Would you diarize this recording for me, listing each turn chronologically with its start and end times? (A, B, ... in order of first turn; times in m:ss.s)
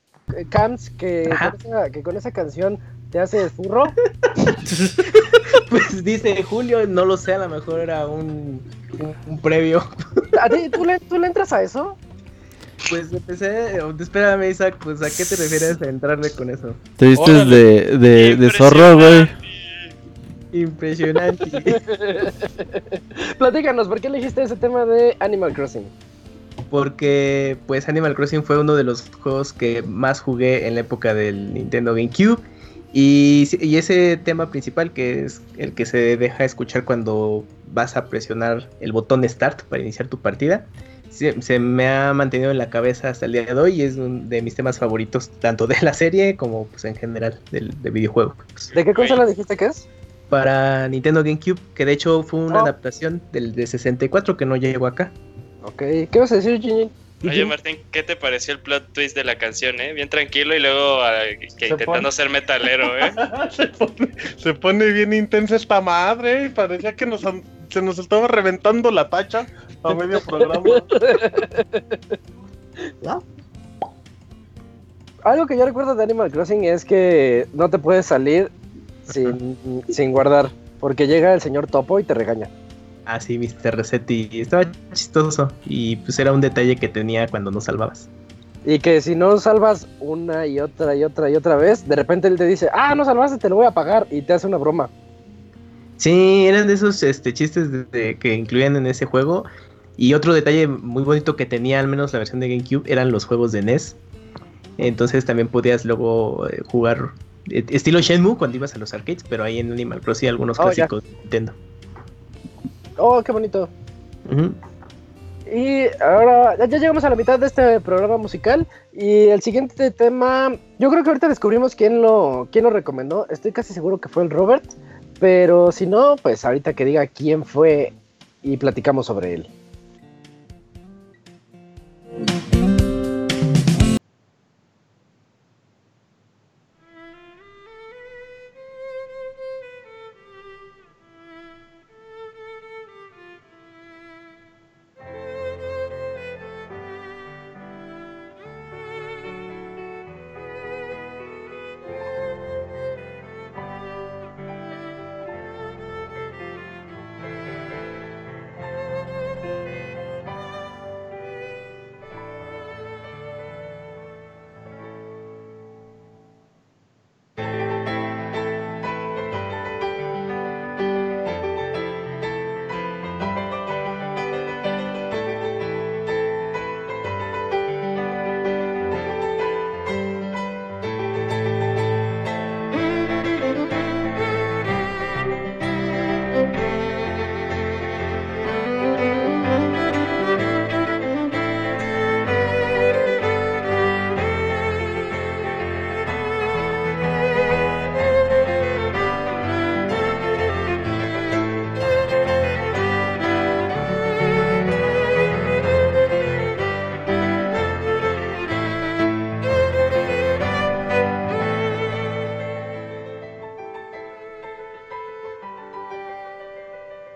0:00.3-0:03.9 A
0:01.2-0:01.5 B
0:04.3-0:10.2 B
0:10.3-0:12.0 A
0:12.8-0:16.8 B
0:17.0-0:19.3 C
0:17.1-0:17.6 D
0:18.1-0:19.9 E
0:20.5-0:21.8 B
0:21.6-0:25.9 A
0:26.7-0:48.7 B
0:48.7-0:49.2 E
0:48.7-0:49.9 A
0:50.3-0:55.1 B
0:55.6-0:57.5 A
0:57.2-1:03.2 E
1:01.7-1:02.1 D
1:02.9-1:11.0 D
1:09.9-1:12.0 A
1:15.2-1:18.5 A
1:19.1-1:22.5 A
1:23.0-1:28.1 B
1:28.6-1:34.9 A
1:36.0-1:44.0 B
1:44.8-1:51.6 B
1:50.6-1:50.9 A
1:53.0-1:53.7 A
1:54.2-1:54.6 B
1:55.5-2:09.5 A